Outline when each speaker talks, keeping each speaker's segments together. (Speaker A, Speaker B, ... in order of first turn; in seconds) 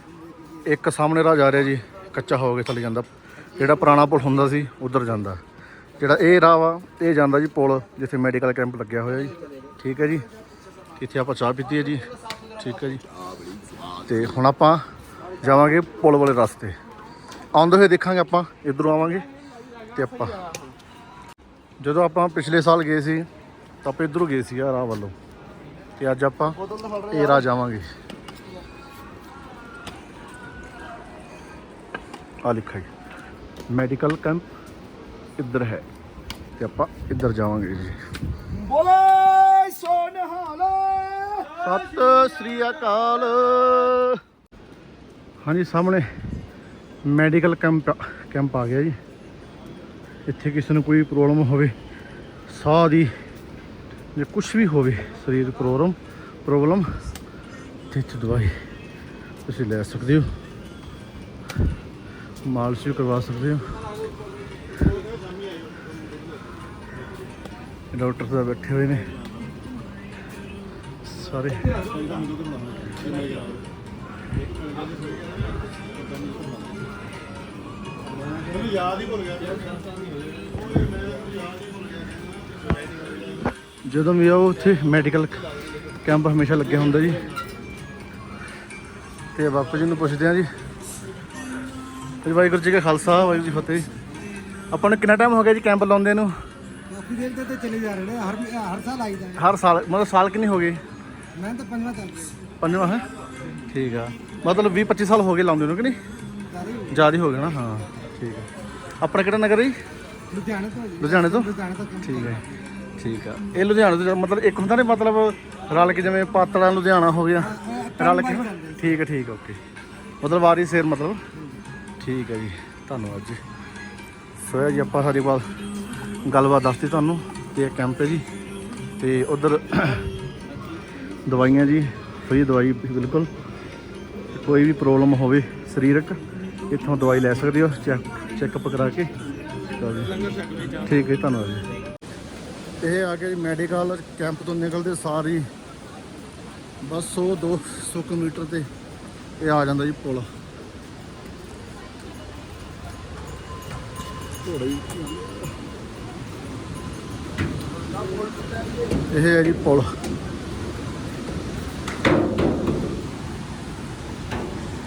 Speaker A: 0.6-5.4, 6.0-10.3, 11.0-13.0, 14.0-14.8, 15.4-16.8, 17.5-19.3, 19.9-20.6, 21.8-23.3, 23.8-25.1, 26.0-26.6, 27.1-27.8, 32.4-32.9, 33.7-34.5, 35.4-35.9, 36.6-38.0, 41.5-44.2, 45.4-46.1, 47.0-49.0, 50.3-51.7, 52.5-53.1, 54.1-57.0, 57.9-58.5, 59.4-60.3, 62.4-63.7, 67.9-69.2, 71.0-72.2, 83.8-87.3, 89.3-90.5, 92.2-93.9, 94.7-96.3, 99.3-100.8, 102.6-103.1, 103.7-106.0, 106.9-109.7, 111.0-112.5, 113.0-119.6, 120.2-121.2, 122.0-123.4, 124.4-125.5, 126.2-128.2, 129.0-130.1, 131.2-133.3, 134.3-139.1, 139.7-141.6, 142.8-145.5, 146.8-148.7, 149.4-150.3, 154.4-155.4, 158.9-159.9
Speaker B: 26.7-27.1, 38.5-41.5, 158.2-158.6
Speaker C: 96.9-99.4, 101.3-102.3, 106.6-106.9, 110.3-112.2, 117.6-118.7